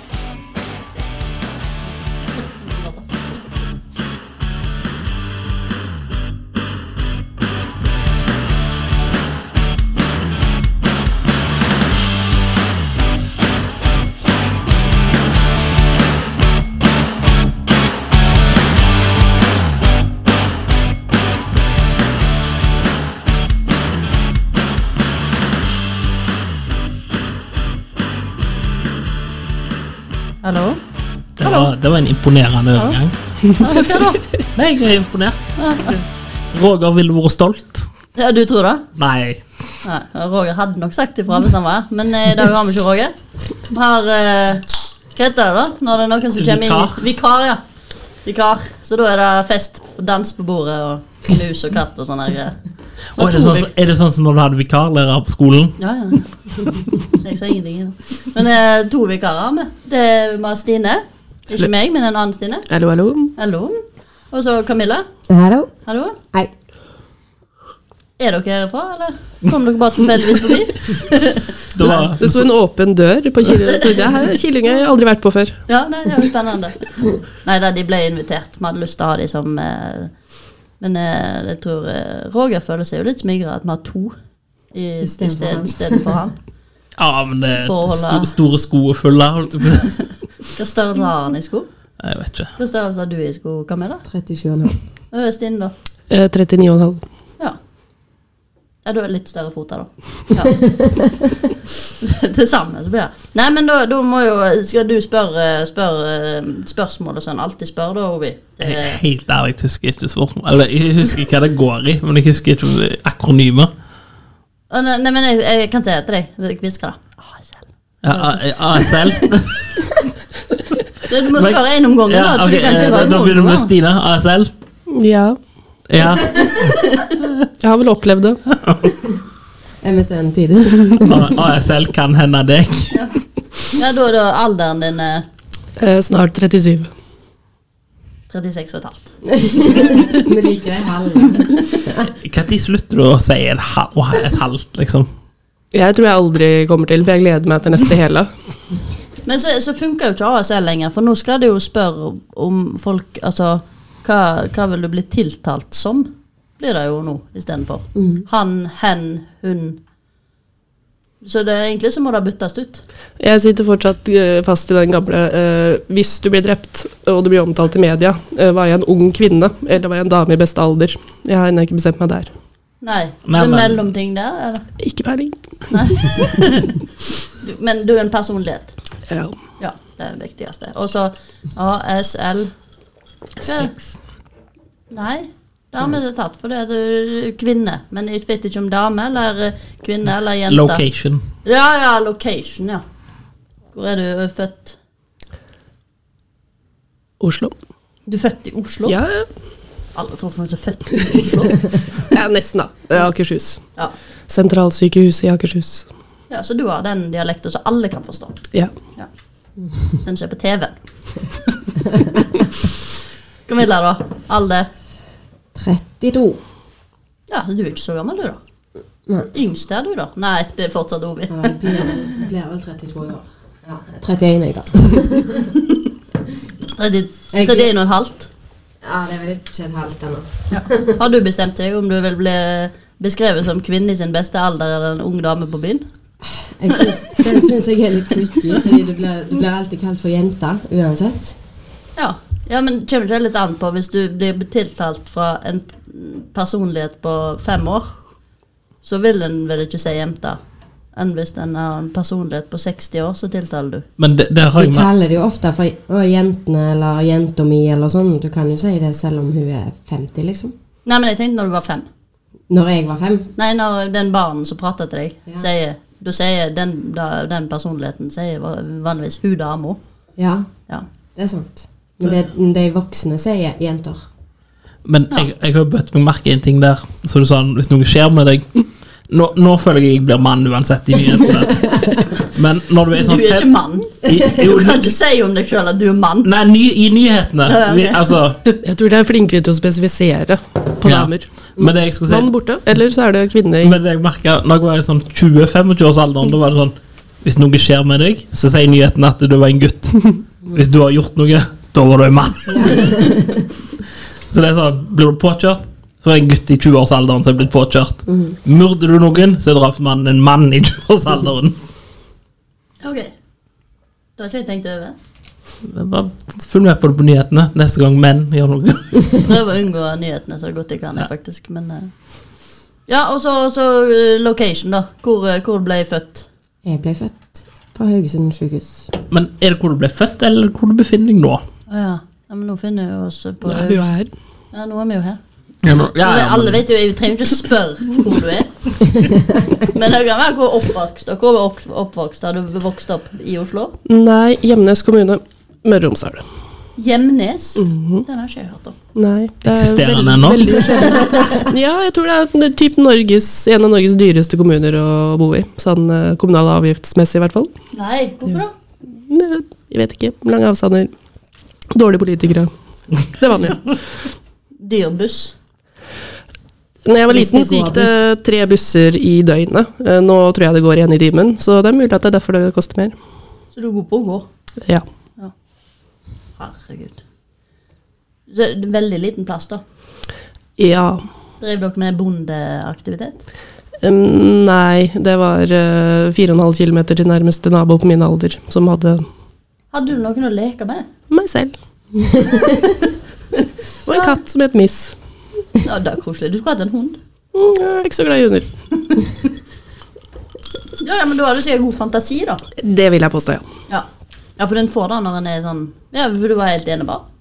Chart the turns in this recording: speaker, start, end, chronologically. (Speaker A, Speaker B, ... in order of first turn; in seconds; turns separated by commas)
Speaker A: 2.4-3.1, Speaker A: 30.4-30.8, Speaker B: 31.4-33.1, Speaker A: 31.4-31.7, Speaker A: 32.7-33.0, Speaker A: 33.5-34.2, Speaker B: 34.5-37.9, Speaker A: 35.6-36.0, Speaker A: 38.1-38.8, Speaker B: 39.0-39.4, Speaker A: 39.8-47.6, Speaker B: 46.4-47.0, Speaker A: 48.2-52.6, Speaker A: 53.1-53.7, Speaker B: 53.1-55.8, Speaker A: 55.8-62.7, Speaker C: 62.7-63.3, Speaker A: 63.3-63.8, Speaker A: 64.3-65.0, Speaker D: 65.3-65.7, Speaker A: 65.8-66.2, Speaker A: 68.2-72.0, Speaker B: 71.7-72.5, Speaker C: 71.8-75.6, Speaker A: 73.6-74.2, Speaker A: 75.7-80.1, Speaker A: 80.8-84.1, Speaker A: 84.7-86.3, Speaker D: 85.0-86.0, Speaker B: 87.0-89.9, Speaker A: 87.6-88.3, Speaker A: 90.5-91.7, Speaker B: 92.0-92.5, Speaker A: 92.6-94.0, Speaker D: 94.1-94.8, Speaker A: 95.1-95.7, Speaker C: 96.1-97.0, Speaker A: 98.8-100.6, Speaker D: 100.6-101.1, Speaker A: 102.0-109.0, Speaker B: 108.6-113.7, Speaker A: 114.7-119.1, Speaker B: 118.0-119.8, Speaker A: 121.0-123.7, Speaker B: 121.3-124.5, Speaker C: 124.9-125.4, Speaker B: 125.9-126.7, Speaker A: 126.6-127.0, Speaker C: 127.6-128.4, Speaker D: 129.8-131.4, Speaker B: 131.0-133.0, Speaker A: 133.7-135.2, Speaker C: 135.8-136.9, Speaker A: 138.3-140.3, Speaker D: 139.3-142.1, Speaker A: 141.3-141.8, Speaker B: 142.2-145.1, Speaker C: 145.7-148.3, Speaker A: 149.2-159.8, Speaker D: 157.9-158.2, Speaker A: 161.2-162.8, Speaker C: 163.2-172.3, Speaker A: 172.8-174.7, Speaker B: 173.2-173.8, Speaker C: 174.8-176.0, Speaker A: 175.7-178.8, Speaker C: 179.1-179.3, Speaker A: 179.6-182.5, Speaker A: 183.4-183.7, Speaker B: 183.4-183.8, Speaker A: 184.9-190.8, Speaker B: 190.5-191.2, Speaker A: 191.4-192.8, Speaker A: 193.7-194.8, Speaker C: 197.2-197.5, Speaker A: 198.1-198.9, Speaker C: 198.9-199.3, Speaker A: 199.9-202.1, Speaker C: 202.1-203.6, Speaker C: 204.3-205.8, Speaker A: 206.3-208.4, Speaker A: 210.0-211.6, Speaker A: 213.5-214.7, Speaker D: 215.5-216.4, Speaker A: 217.3-218.4, Speaker A: 219.3-222.1, Speaker D: 221.3-225.5, Speaker A: 226.7-228.3, Speaker D: 227.3-227.7, Speaker D: 228.8-231.0, Speaker A: 230.5-235.8, Speaker D: 236.2-241.4, Speaker A: 241.9-247.9, Speaker A: 248.8-250.4, Speaker A: 250.9-253.8, Speaker B: 254.0-254.9, Speaker D: 254.6-260.5, Speaker A: 260.9-261.9, Speaker D: 262.5-263.3, Speaker A: 263.4-269.8, Speaker D: 270.2-270.5, Speaker D: 271.1-274.1, Speaker B: 274.8-283.5, Speaker D: 281.7-281.9, Speaker A: 283.0-286.3, Speaker B: 284.0-284.9, Speaker B: 286.2-288.4, Speaker A: 287.4-288.6, Speaker C: 288.6-291.3, Speaker B: 290.8-292.3, Speaker C: 292.1-293.8, Speaker B: 293.6-303.2, Speaker D: 302.5-303.5, Speaker B: 304.3-311.5, Speaker D: 308.1-308.4, Speaker A: 312.8-313.1, Speaker A: 314.2-314.9, Speaker B: 315.6-319.2, Speaker A: 319.2-321.9, Speaker A: 322.9-326.3, Speaker D: 326.6-328.9, Speaker B: 329.1-331.4, Speaker A: 331.7-333.9, Speaker C: 333.4-334.1, Speaker A: 334.5-335.2, Speaker B: 335.6-336.6, Speaker A: 335.8-338.5, Speaker D: 338.9-339.5, Speaker A: 339.7-343.8, Speaker C: 343.9-346.2, Speaker A: 346.8-348.8, Speaker C: 347.6-348.0, Speaker C: 348.9-357.5, Speaker B: 349.4-350.5, Speaker A: 357.7-358.5, Speaker C: 358.9-360.9, Speaker C: 361.7-363.7, Speaker A: 364.6-365.3, Speaker C: 366.8-372.9, Speaker D: 367.1-368.0, Speaker A: 373.5-374.3, Speaker A: 376.4-377.0, Speaker A: 378.3-379.6, Speaker C: 380.6-381.1, Speaker A: 381.4-383.2, Speaker C: 383.8-389.0, Speaker A: 389.7-390.9, Speaker C: 391.1-391.5, Speaker C: 393.8-394.9, Speaker A: 393.9-394.2, Speaker A: 395.6-397.0, Speaker C: 397.3-398.5, Speaker A: 400.8-402.4, Speaker C: 402.6-403.4, Speaker A: 404.4-407.0